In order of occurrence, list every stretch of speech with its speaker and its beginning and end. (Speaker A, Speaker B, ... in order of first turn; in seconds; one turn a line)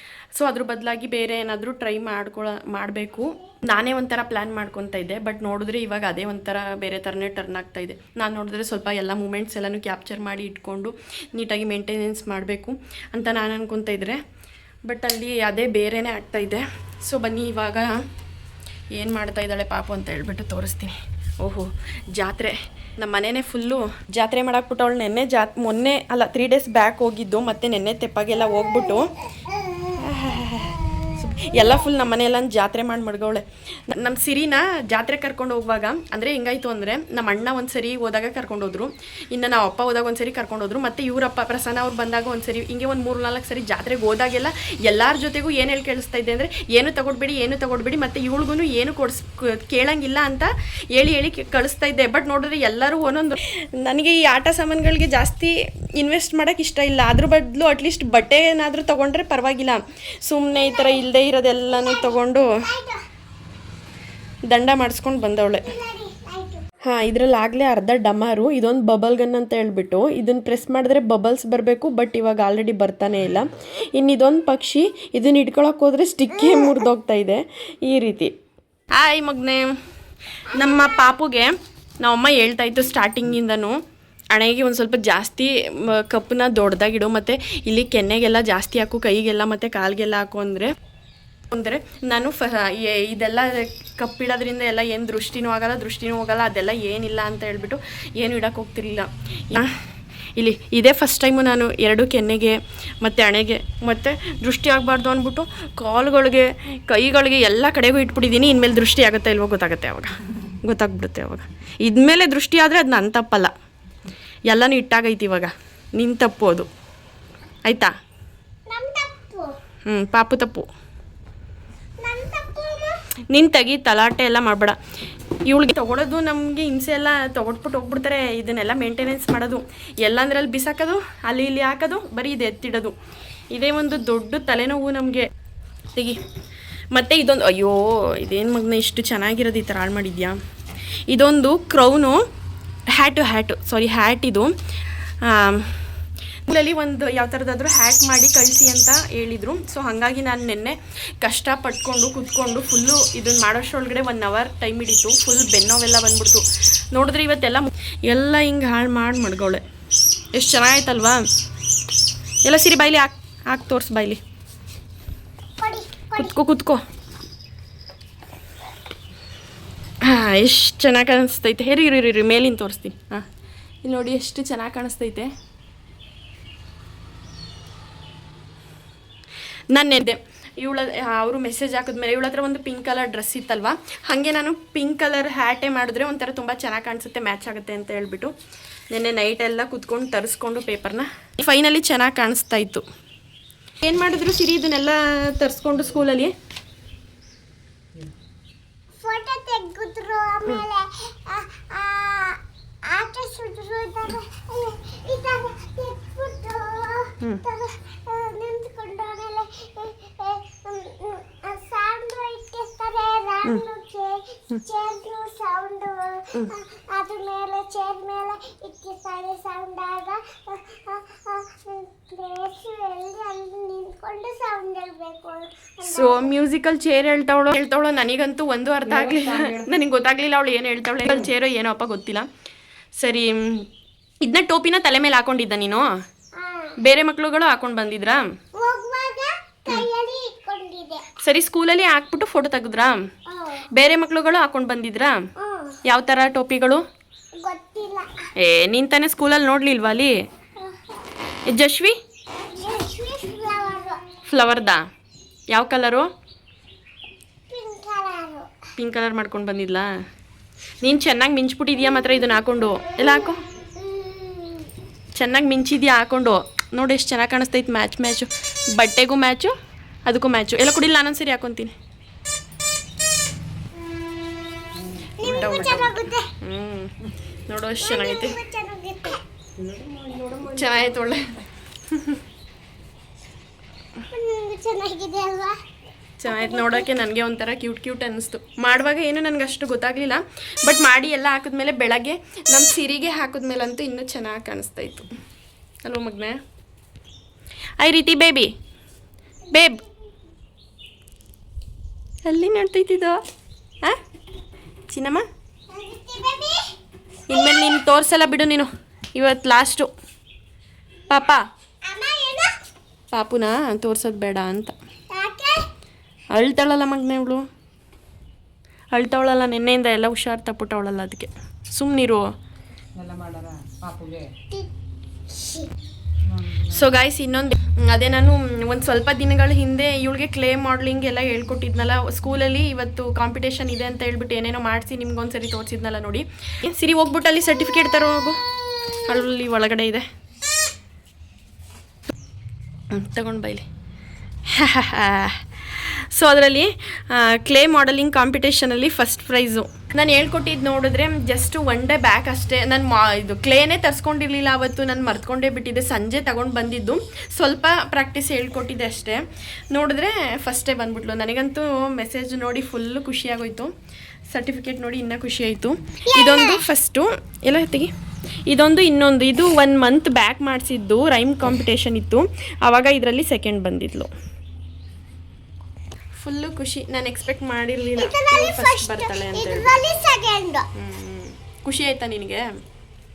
Speaker A: 0.3-14.2
Speaker A: 14.8-18.0
Speaker A: 18.9-29.1
Speaker A: 30.0-62.5
Speaker B: 60.5-61.0
Speaker B: 61.7-63.0
Speaker A: 64.5-65.8
Speaker B: 65.6-66.6
Speaker A: 66.8-78.3
Speaker A: 79.0-79.7
Speaker A: 80.4-83.8
Speaker A: 84.3-90.7
Speaker A: 91.5-99.7
Speaker A: 100.3-113.5
Speaker A: 114.5-116.7
Speaker A: 117.6-117.9
Speaker B: 118.7-119.5
Speaker A: 119.9-120.7
Speaker B: 122.0-123.0
Speaker A: 123.3-124.8
Speaker A: 125.5-132.9
Speaker A: 133.5-135.3
Speaker A: 136.9-140.3
Speaker A: 141.1-142.2
Speaker A: 142.9-144.5
Speaker A: 145.2-145.8
Speaker A: 146.5-159.6
Speaker A: 160.3-161.2
Speaker A: 162.4-164.2
Speaker B: 165.6-166.3
Speaker A: 166.2-166.8
Speaker A: 170.0-173.2
Speaker A: 173.8-175.3
Speaker A: 179.7-188.3
Speaker A: 188.9-192.8
Speaker A: 193.8-196.3
Speaker B: 199.0-226.3
Speaker A: 225.8-232.3
Speaker C: 228.8-229.7
Speaker A: 233.0-233.7
Speaker A: 234.2-235.9
Speaker B: 236.3-236.8
Speaker A: 236.8-238.2
Speaker B: 238.6-241.1
Speaker A: 241.2-243.0
Speaker B: 243.3-243.7
Speaker A: 243.7-245.2
Speaker B: 245.4-245.8
Speaker A: 245.8-246.8
Speaker B: 247.4-248.1
Speaker A: 248.4-250.2
Speaker B: 250.6-251.0
Speaker A: 251.5-251.9
Speaker B: 252.5-254.0
Speaker A: 254.2-254.8
Speaker A: 255.5-256.1
Speaker B: 257.5-258.5
Speaker A: 258.8-259.9
Speaker A: 260.8-263.4
Speaker B: 263.0-264.7
Speaker A: 265.1-269.5
Speaker A: 270.1-271.7
Speaker C: 274.8-275.7
Speaker B: 275.2-276.3
Speaker A: 275.2-276.9
Speaker A: 277.5-278.4
Speaker B: 277.8-279.2
Speaker C: 279.6-280.9
Speaker A: 280.4-282.2
Speaker B: 284.1-285.6
Speaker A: 286.2-295.1
Speaker B: 286.2-286.9
Speaker A: 295.8-296.4
Speaker A: 297.8-298.5
Speaker A: 299.5-299.8
Speaker A: 302.2-303.2
Speaker A: 304.9-305.2
Speaker B: 305.7-306.8
Speaker A: 307.3-309.9
Speaker B: 307.3-307.8
Speaker A: 311.1-311.4
Speaker B: 311.8-312.5
Speaker A: 313.1-314.7
Speaker B: 315.1-315.7
Speaker A: 316.3-317.4
Speaker A: 318.9-322.3
Speaker C: 322.9-324.3
Speaker B: 325.3-325.7
Speaker C: 326.2-326.9
Speaker A: 326.6-338.4
Speaker A: 339.0-340.0
Speaker A: 342.9-343.6
Speaker A: 344.5-363.7
Speaker A: 364.3-367.9
Speaker B: 366.1-366.6
Speaker A: 368.5-374.1
Speaker A: 376.2-379.8
Speaker B: 377.9-380.7
Speaker A: 380.7-382.4